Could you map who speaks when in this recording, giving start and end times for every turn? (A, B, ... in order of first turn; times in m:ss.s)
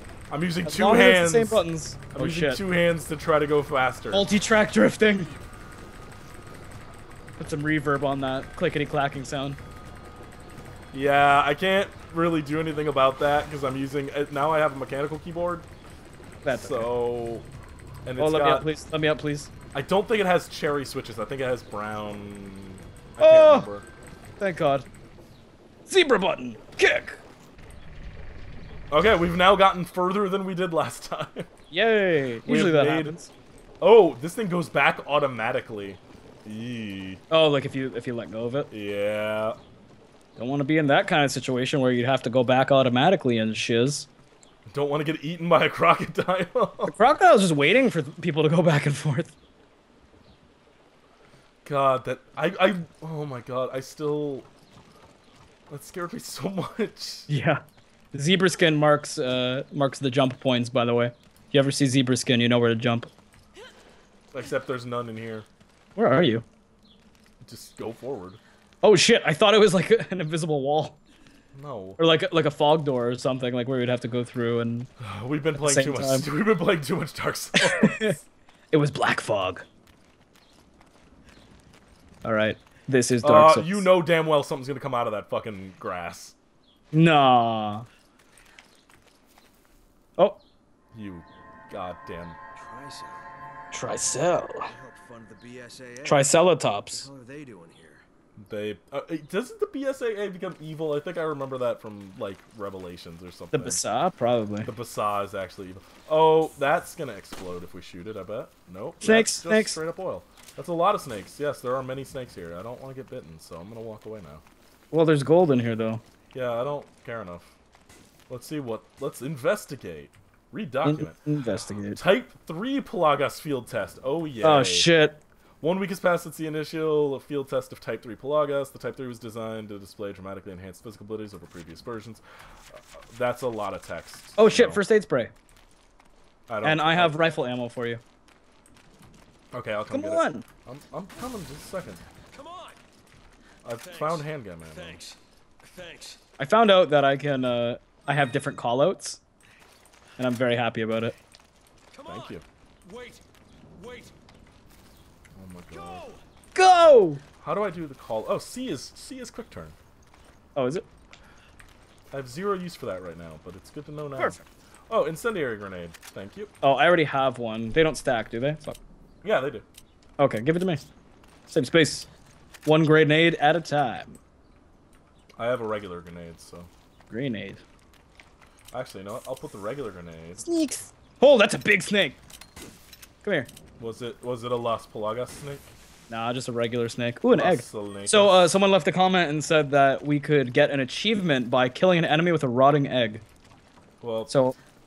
0:00.3-0:04.3 A
0:00.6-0:02.6 B
0:04.1-0:05.3 B
0:07.4-0:09.6 B
0:10.9-0:15.7 A
0:16.4-0:16.9 B
0:16.5-0:17.5 A
0:18.1-0:18.7 A
0:18.2-0:19.5 B
0:19.7-0:23.9 A
0:23.2-0:23.7 B
0:24.4-0:24.9 B
0:25.9-0:27.2 B
0:28.9-0:31.5 A
0:31.7-0:33.3 B
0:32.4-0:33.2 A
0:33.8-0:37.2 A
0:37.3-0:38.7 B
0:38.7-0:39.6 A
0:40.4-0:44.1 B
0:44.7-0:46.9 A
0:46.8-0:49.3 B
0:51.6-0:54.5 A
0:55.7-0:57.3 A
0:57.3-1:03.1 B
1:04.3-1:05.5 A
1:06.0-1:06.4 B
1:07.4-1:08.4 A
1:08.8-1:11.0 B
1:11.5-1:12.0 A
1:12.0-1:14.9 B
1:15.0-1:18.2 A
1:15.6-1:16.3 B
1:17.6-1:18.2 B
1:18.7-1:19.6 B
1:22.2-1:23.9 B
1:23.2-1:26.4 A
1:26.9-1:27.9 B
1:30.9-1:32.4 A
1:32.6-1:33.2 C
1:33.7-1:34.7 B
1:34.6-1:38.0 C
1:36.0-1:37.1 B
1:38.4-1:43.8 A
1:43.5-1:44.7 B
1:44.6-1:54.4 A
1:49.0-1:49.8 B
1:54.9-1:56.0 B
1:56.3-1:57.5 A
1:58.3-2:01.2 A
2:00.8-2:02.0 B
2:01.8-2:04.9 A
2:04.4-2:05.2 B
2:05.6-2:14.8 A
2:14.4-2:15.3 B
2:16.5-2:17.2 A
2:16.6-2:18.0 B
2:19.5-2:22.1 A
2:19.9-2:20.5 B
2:22.3-2:22.8 C
2:23.6-2:25.0 A
2:23.8-2:26.2 C
2:26.4-2:29.2 B
2:30.2-2:31.1 B
2:31.9-2:33.2 C
2:32.1-2:32.4 A
2:33.8-2:34.1 C
2:35.4-2:36.1 A
2:35.7-2:36.2 C
2:36.6-2:37.2 B
2:37.4-2:39.8 A
2:40.6-2:40.9 B
2:42.1-2:46.5 A
2:46.6-2:48.8 B
2:49.2-2:49.6 A
2:50.2-2:50.8 B
2:51.5-2:52.1 B
2:52.6-2:54.2 B
2:55.4-2:56.7 A
2:57.1-2:57.6 B
2:58.7-3:00.5 A
3:00.4-3:02.2 B
3:03.2-3:03.5 B
3:03.8-3:05.7 A
3:06.1-3:13.2 B
3:07.3-3:08.4 A
3:14.0-3:14.3 A
3:14.3-3:14.6 B